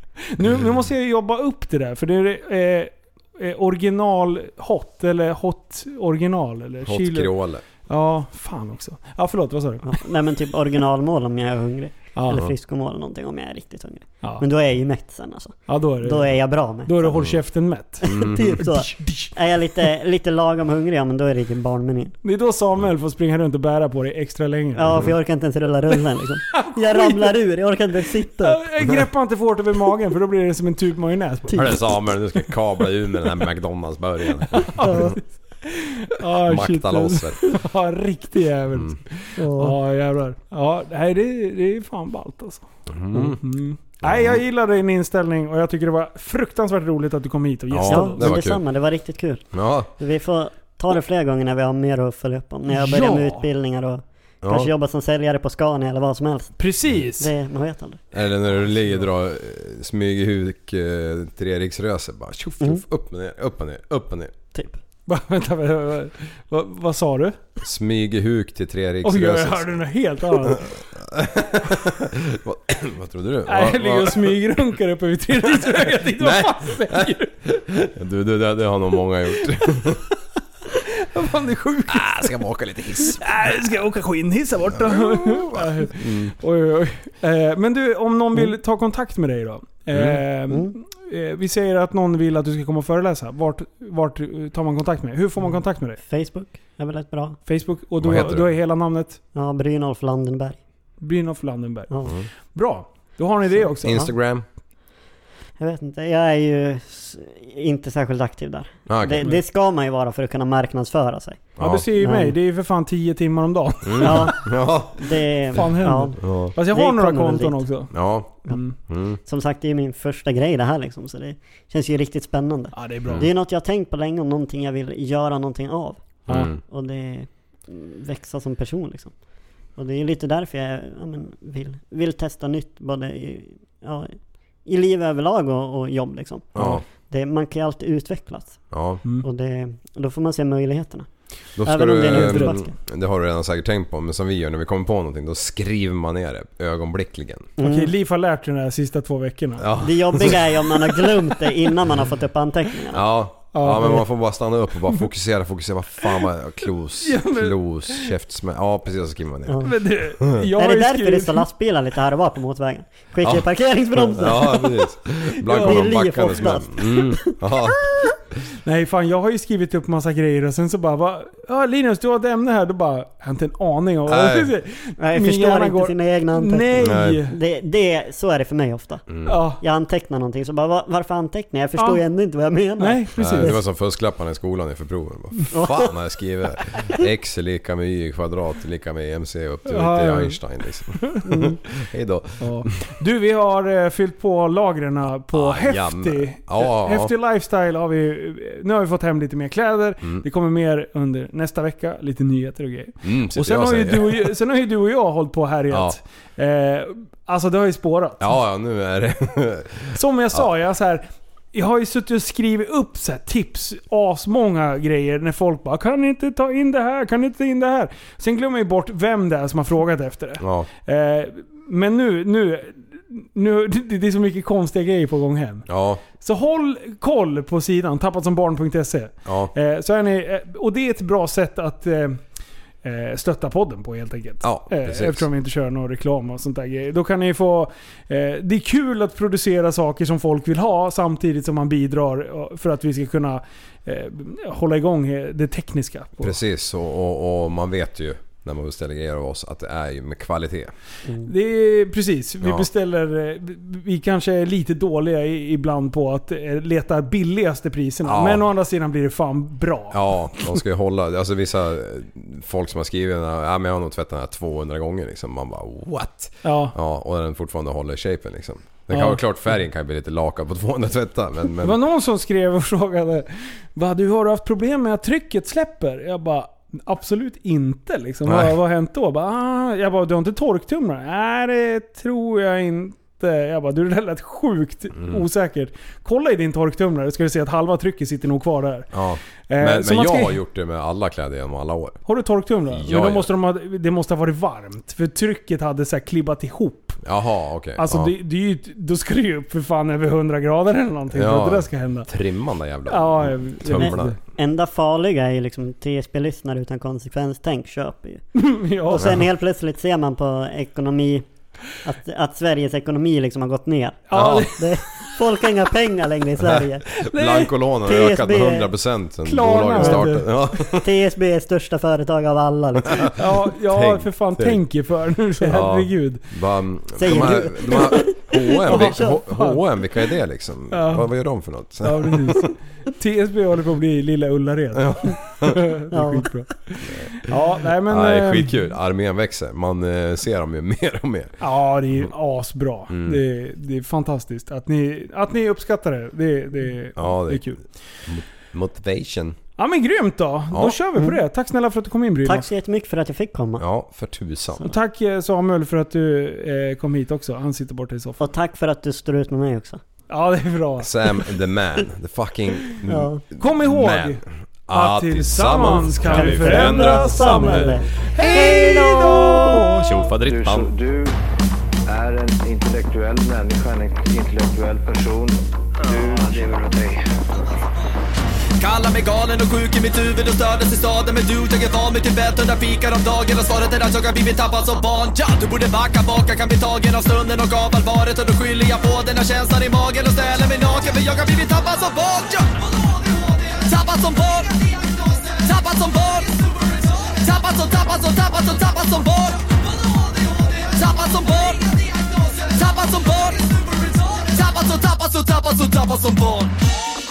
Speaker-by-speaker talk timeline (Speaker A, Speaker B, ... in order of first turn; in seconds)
Speaker A: 0.2-7.3, 7.9-10.0, 12.2-12.5, 15.7-19.3, 22.2-25.1, 26.5-27.3, 28.4-32.1, 34.5-42.7, 43.2-48.2, 52.7-53.5, 56.6-57.3, 65.1-67.4, 69.0-70.7, 73.5-77.3, 80.7-82.3, 83.1-96.0, 97.5-99.2, 101.0-101.9, 102.5-104.1, 111.6-114.5, 115.5-118.8, 122.7-123.3, 126.3-126.5, 142.0-142.6, 147.6-149.7, 153.5-154.0, 157.0-158.2, 159.6-161.5, 165.5-165.9, 168.7-177.4, 179.3-179.6, 182.8-183.6, 189.7-191.2, 192.4-208.4, 209.9-225.7, 226.2-232.2, 232.8-246.4, 251.2-260.6, 266.4-266.8, 268.9-269.2, 271.6-288.9, 289.5-290.4, 292.1-297.0, 297.8-302.1, 302.9-304.2, 308.4-309.2, 314.1-314.7, 317.0-317.5, 319.3-320.3, 323.1-326.2, 328.7-329.6, 330.7-331.1, 331.8-338.6, 341.4-347.6, 349.6-352.5, 354.6-358.2, 360.1-360.9, 363.4-370.1
Speaker B: 6.8-7.6, 18.0-18.6, 31.5-35.0, 36.5-37.5, 38.7-39.0, 42.9-43.4, 44.0-44.4, 47.7-48.6, 49.5-49.9, 54.4-54.7, 58.1-64.3, 67.6-69.8, 70.4-74.4, 75.4-80.0, 81.9-83.4, 84.8-86.3, 89.9-90.2, 98.0-98.5, 103.8-104.5, 108.9-109.3, 111.6-111.8, 113.8-115.6, 116.2-116.5, 117.9-119.2, 126.3-126.6, 136.6-136.8, 138.7-139.0, 141.6-147.5, 149.6-150.6, 152.9-159.7, 164.0-168.1, 174.1-174.5, 176.8-177.2, 179.1-179.4, 183.2-192.7, 195.3-197.1, 203.0-204.3, 205.7-206.0, 208.2-210.4, 220.4-220.7, 225.7-226.0, 229.3-229.5, 234.4-235.3, 246.2-250.7, 252.4-252.7, 258.1-258.4, 259.9-271.8, 278.3-278.6, 285.0-285.2, 288.9-292.0, 292.7-293.3, 297.0-298.1, 301.1-304.2, 314.1-314.5, 317.0-320.9, 323.0-324.6, 325.4-332.5, 334.8-335.6, 336.8-341.3, 342.9-343.2, 347.0-349.4, 350.5-350.8, 353.6-354.7, 360.8-370.7
Speaker C: 9.8-17.2, 18.0-22.1, 24.8-28.6, 34.8-35.2, 39.4-39.8, 47.9-58.0, 90.5-90.8, 96.0-97.4, 99.3-100.6, 105.6-111.4, 112.0-112.3, 114.0-117.7, 119.3-129.1, 129.8-141.1, 141.6-142.7, 147.6-147.9, 149.8-153.1, 159.5-159.7, 160.4-164.6, 165.5-167.4, 175.0-183.5, 185.5-185.9, 191.2-191.6, 303.8-308.2, 308.9-316.9, 317.9-318.7, 319.8-320.1, 320.7-323.1, 327.0-329.2, 335.9-336.2, 352.2-353.6, 358.2-359.8, 362.9-363.2, 366.1-369.1
Speaker D: 370.2-371.2, 371.9-377.0
Speaker E: 378.6-406.6